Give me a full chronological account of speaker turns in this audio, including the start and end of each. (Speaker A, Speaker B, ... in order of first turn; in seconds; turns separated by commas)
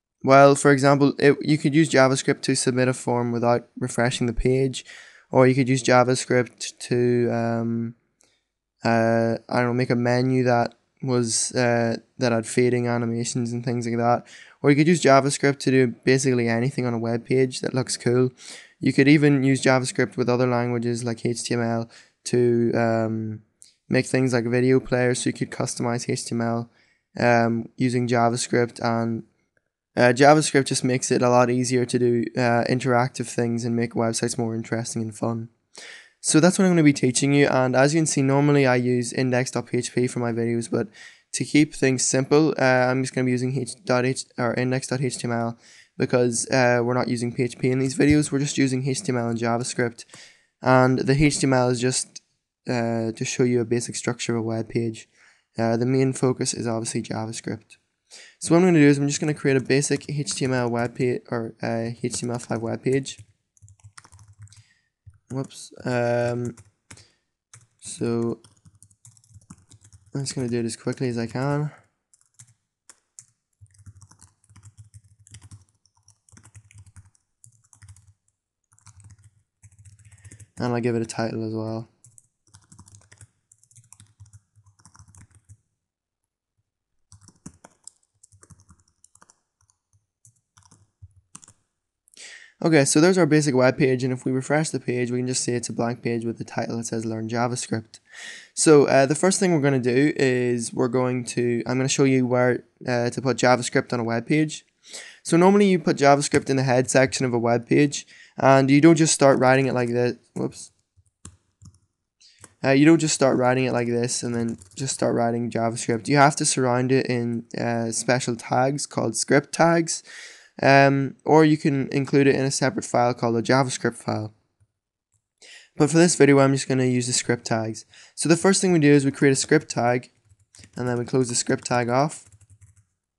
Speaker A: 0.2-8.0, Speaker A: 8.8-29.3, Speaker A: 30.0-35.5, Speaker A: 36.2-50.1, Speaker A: 50.6-57.8, Speaker A: 58.4-63.2, Speaker A: 65.3-66.6, Speaker A: 67.8-68.4, Speaker A: 70.1-71.7, Speaker A: 80.6-81.9, Speaker A: 92.6-98.0, Speaker A: 98.5-104.7, Speaker A: 105.2-110.7, Speaker A: 112.6-120.0, Speaker A: 120.6-124.3, Speaker A: 125.8-130.1, Speaker A: 130.8-132.3